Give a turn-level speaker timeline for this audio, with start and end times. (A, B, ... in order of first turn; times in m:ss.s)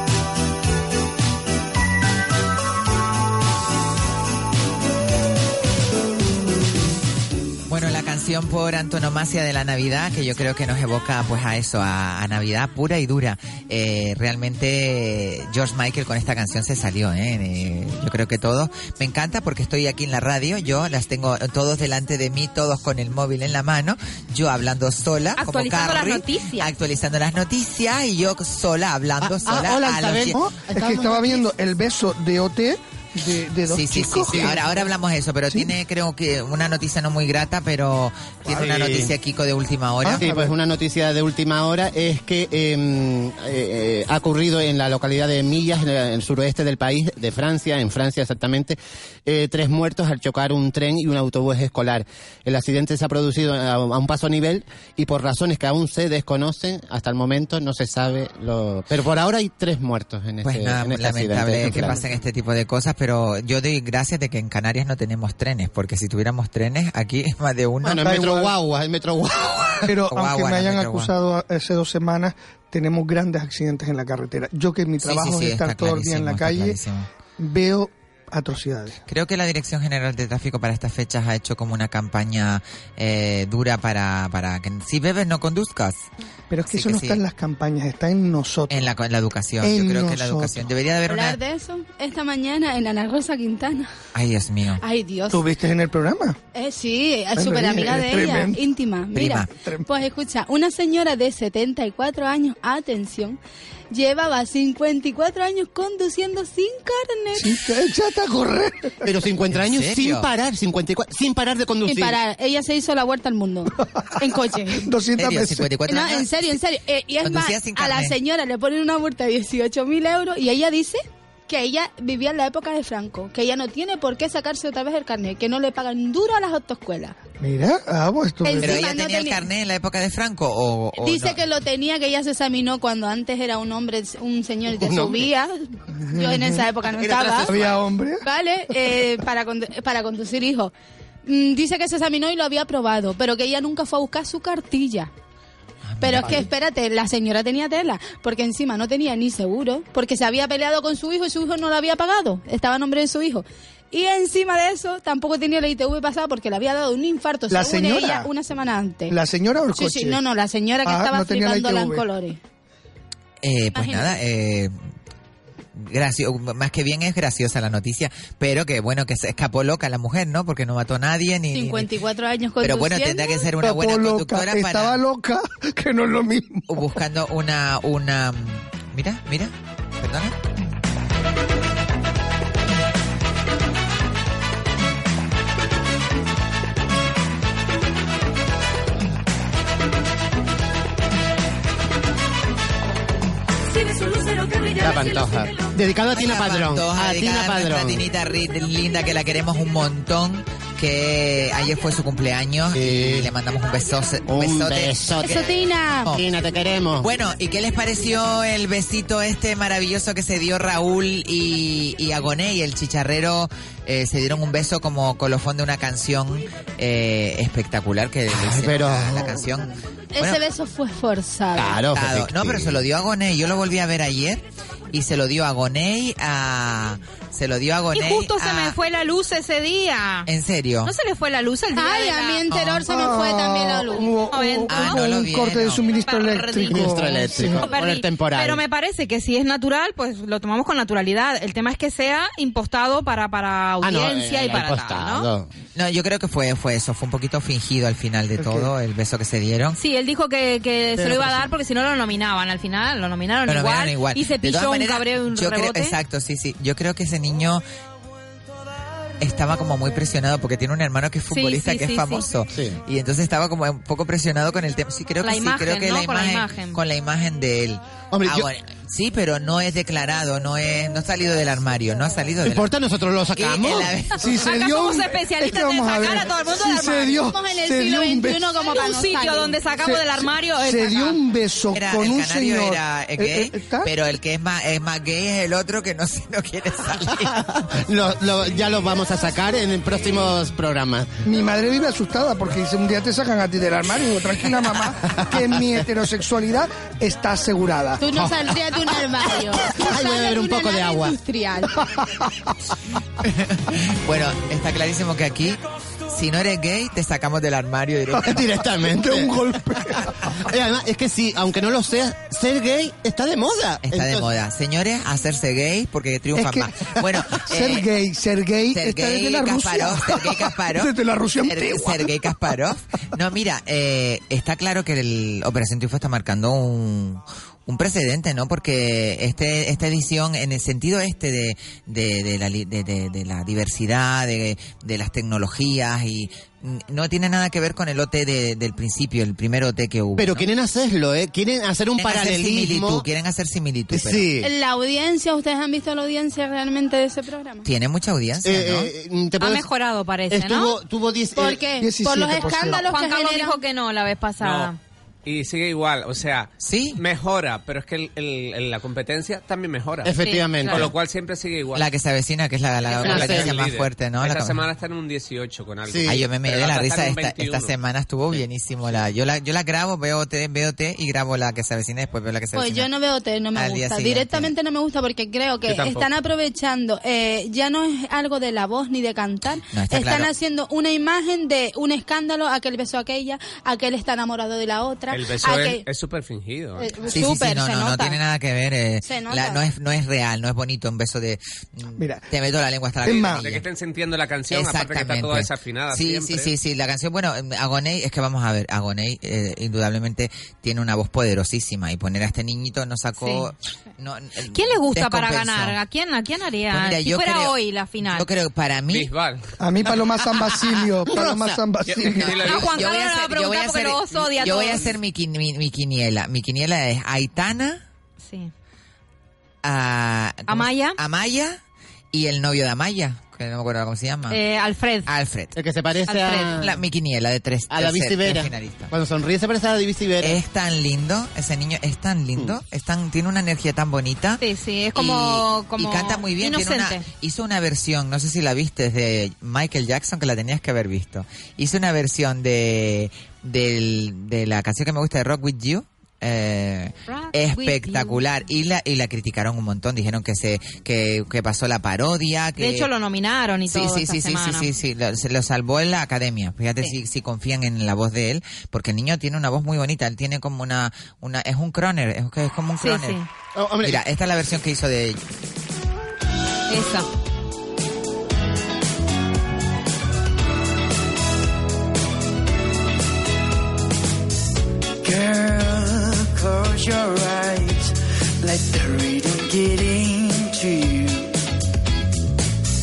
0:07.7-0:30.4 A
0:25.4-0:26.7 B
0:29.2-0:31.4 C
0:30.3-0:34.7 D
0:33.7-0:40.3 A
0:34.3-0:34.6 C
0:38.5-0:39.2 C
0:40.0-0:40.5 D
0:40.2-1:02.1 C
1:00.4-1:08.1 A
1:01.7-1:02.0 D
1:07.8-1:09.9 C
1:08.0-1:08.5 D
1:09.9-1:16.8 D
1:10.1-1:11.1 A
1:15.0-1:17.1 A
1:17.4-1:19.0 D
1:19.1-1:26.1 A
1:26.5-1:28.9 D
1:26.7-1:27.2 A
1:28.7-1:31.4 A
1:29.6-1:30.7 D
1:31.1-1:33.9 E
1:34.2-1:34.8 A
1:34.8-1:35.4 E
1:35.3-1:36.4 D
1:36.5-1:43.4 E
1:37.4-1:38.6 D
1:39.1-1:39.5 A
1:39.6-1:39.9 D
1:43.9-1:47.5 E
1:47.4-1:49.1 D
1:49.0-1:52.2 C
1:49.5-1:50.3 A
1:51.8-1:54.9 E
1:54.8-1:55.7 D
1:55.2-1:56.5 A
1:55.9-2:07.2 E
1:57.2-1:58.2 A
2:07.4-2:08.8 D
2:08.4-2:09.5 E
2:08.6-2:11.4 A
2:11.0-2:17.6 E
2:14.8-2:15.2 C
2:16.1-2:16.7 D
2:17.0-2:17.8 C
2:17.5-2:18.2 D
2:18.2-2:20.7 E
2:21.2-2:25.1 E
2:25.9-2:26.4 A
2:26.0-2:39.2 E
2:37.5-2:38.3 D
2:39.1-2:40.2 D
2:39.8-2:42.4 E
2:40.8-2:42.0 D
2:43.4-2:44.7 A
2:43.8-2:44.1 E
2:45.8-2:51.9 A
2:51.5-2:53.5 E
2:52.6-2:55.0 A
2:53.6-2:56.8 D
2:56.7-3:00.4 A
3:13.8-3:15.5 F
3:14.8-3:18.0 C
3:16.1-3:25.4 A
3:22.7-3:23.3 C
3:24.2-3:25.5 C
3:25.2-3:26.1 E
3:26.1-3:27.1 C
3:27.0-3:40.4 A
3:38.3-3:39.4 C
3:40.1-3:41.8 E
3:41.6-3:42.8 C
3:41.9-3:48.8 A
3:47.9-3:50.3 B
3:50.3-3:50.9 A
3:50.8-3:52.4 B
3:51.7-3:54.1 E
3:52.5-3:52.9 A
3:52.9-3:57.7 D
3:54.3-3:55.1 B
3:54.7-3:55.8 A
3:55.9-4:05.3 B
3:56.7-3:58.6 C
4:03.8-4:05.5 C
4:05.8-4:09.8 A
4:08.4-4:08.7 D
4:09.8-4:16.0 B
4:11.0-4:11.4 C
4:13.5-4:17.6 A
4:19.2-4:32.7 A
4:21.3-4:22.3 B
4:22.5-4:22.8 C
4:25.2-4:26.8 B
4:28.1-4:28.5 C
4:32.4-4:33.9 C
4:33.4-4:34.3 A
4:34.2-4:38.5 D
4:34.2-4:37.2 B
4:37.2-4:39.6 E
4:38.6-4:41.2 B
4:39.8-4:43.9 D
4:41.7-4:47.6 A
4:47.2-4:51.2 C
4:51.2-4:58.1 D
4:55.1-4:55.4 C
4:58.0-5:01.8 E
4:59.8-5:01.2 C
5:01.8-5:02.3 D
5:03.2-5:08.4 A
5:08.2-5:09.4 C
5:08.8-5:10.2 D
5:10.4-5:14.3 C
5:13.8-5:17.9 A
5:16.3-5:22.1 D
5:18.7-5:20.9 A
5:21.5-5:40.5 A
5:40.2-5:43.1 C
5:42.0-5:44.2 A
5:43.9-5:44.5 C
5:44.4-5:47.7 E
5:47.6-5:48.9 A
5:48.4-5:49.7 C
5:49.4-5:50.8 B
5:50.3-5:51.6 C
5:51.4-5:53.6 E
5:51.8-5:52.9 D
5:52.8-5:54.8 B
5:54.4-5:54.7 G
5:55.2-6:01.9 G
5:56.6-5:57.0 A
6:00.0-6:00.9 C
6:00.2-6:00.9 B
6:01.7-6:04.6 A
6:02.9-6:07.7 G
6:03.0-6:03.6 C
6:05.9-6:06.2 C
6:06.1-6:12.9 A
6:08.3-6:09.0 G
6:12.6-6:25.8 E
6:13.6-6:14.5 A
6:15.7-6:16.1 G
6:19.7-6:20.3 A
6:25.1-6:27.0 G
6:26.8-6:28.2 E
6:27.1-6:33.7 A
6:29.0-6:29.7 E
6:32.0-6:32.3 D
6:33.0-6:33.5 D
6:33.1-6:36.5 G
6:34.5-6:45.8 A
6:43.2-6:43.5 B
6:44.5-6:48.3 B
6:46.7-6:47.6 A
6:48.1-6:49.1 A
6:48.9-6:49.5 G
6:49.6-6:52.5 D
6:51.0-6:51.6 C
6:51.9-6:52.9 G
6:52.2-6:57.8 A
6:52.4-6:54.9 B
6:54.4-6:54.9 G
6:58.2-6:58.5 B
6:59.6-7:01.6 A
7:00.5-7:01.0 B
7:02.1-7:04.4 A
7:04.3-7:05.1 B
7:05.1-7:05.5 A
7:05.6-7:06.8 C
7:06.1-7:06.6 B
7:06.6-7:08.9 A
7:07.7-7:10.4 C
7:10.2-7:14.4 A
7:14.4-7:17.0 B
7:15.0-7:32.9 A
7:27.1-7:28.2 B
7:32.6-7:34.7 B
7:33.7-7:43.2 A
7:42.8-7:43.2 B
7:43.6-7:44.0 C
7:43.8-7:45.2 A
7:46.7-7:47.1 B
7:55.0-8:01.3 F